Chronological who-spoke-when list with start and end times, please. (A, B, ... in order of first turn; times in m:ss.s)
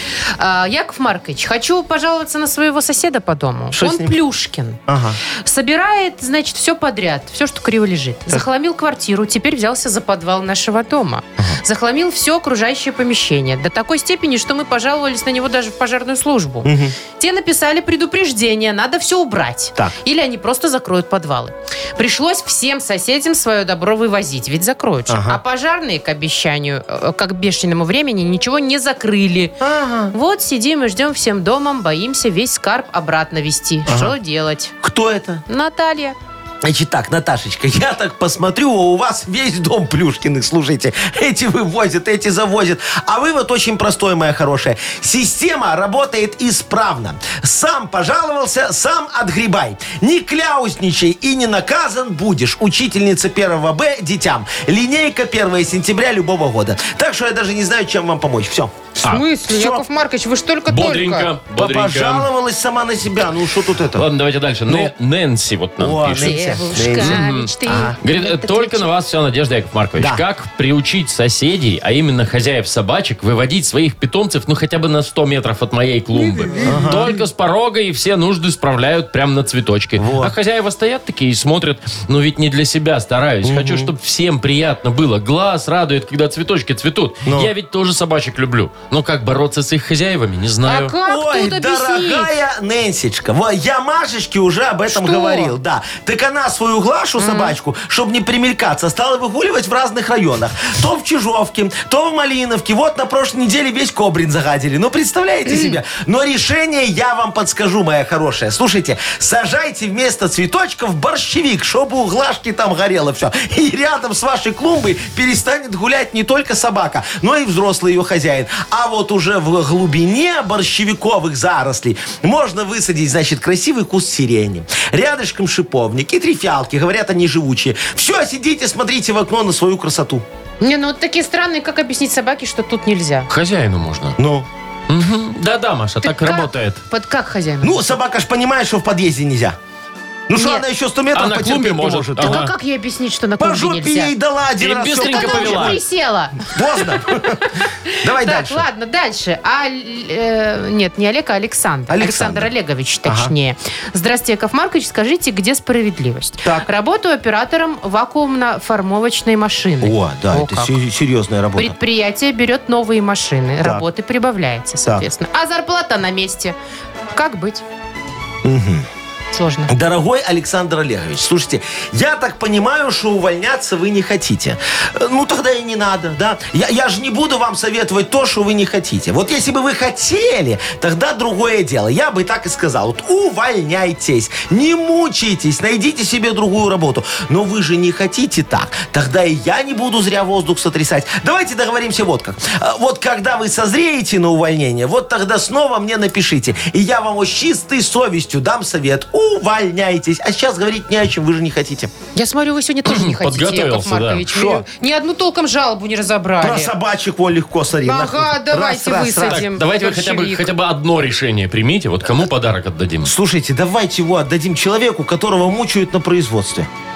0:00.4-0:29.5 A
0:03.7-0:04.2 B
0:04.9-0:05.2 B
0:16.6-0:16.9 B
0:25.1-0:25.4 B
0:29.6-0:30.1 B
0:30.1-0:34.7 A
0:33.9-0:34.1 B
0:34.8-0:35.4 B
0:35.5-0:36.2 A
0:36.6-0:59.8 B
0:59.0-1:01.3 A
1:00.7-1:02.3 C
1:01.6-1:04.0 B
1:03.9-1:30.9 C
1:05.8-1:08.0 B
1:06.2-1:08.9 A
1:10.0-1:10.2 B
1:16.2-1:16.9 A
1:16.6-1:17.1 B
1:20.0-1:20.3 B
1:23.4-1:23.9 B
1:30.6-1:32.3 A
1:31.0-2:10.2 B
1:34.9-1:35.5 A
1:37.2-1:37.6 A
1:45.5-1:45.7 A
2:10.6-2:13.3 A
2:13.3-2:14.2 C
2:14.2-2:14.5 B
2:14.9-2:16.8 C
2:16.0-2:17.9 A
2:17.6-2:19.6 B
2:20.3-2:22.4 B
2:20.3-2:20.6 A
2:21.1-2:22.5 C
2:22.2-2:24.1 A
2:23.4-2:25.8 B
2:24.6-2:25.8 C
2:25.0-2:26.5 A
2:26.4-2:28.6 B
2:27.8-2:40.7 A
2:31.9-2:32.5 B
2:33.0-2:33.3 B
2:39.8-2:41.7 B
2:41.6-2:46.6 A
2:47.1-2:47.6 A
2:48.4-2:48.9 B
2:49.3-2:49.7 A
2:49.7-3:21.9 B
3:22.1-3:26.7 A
3:22.8-3:24.3 C
3:24.3-3:24.6 B
3:26.4-3:29.4 B
3:27.8-3:30.5 A
3:29.3-3:33.1 C
3:33.0-3:36.7 B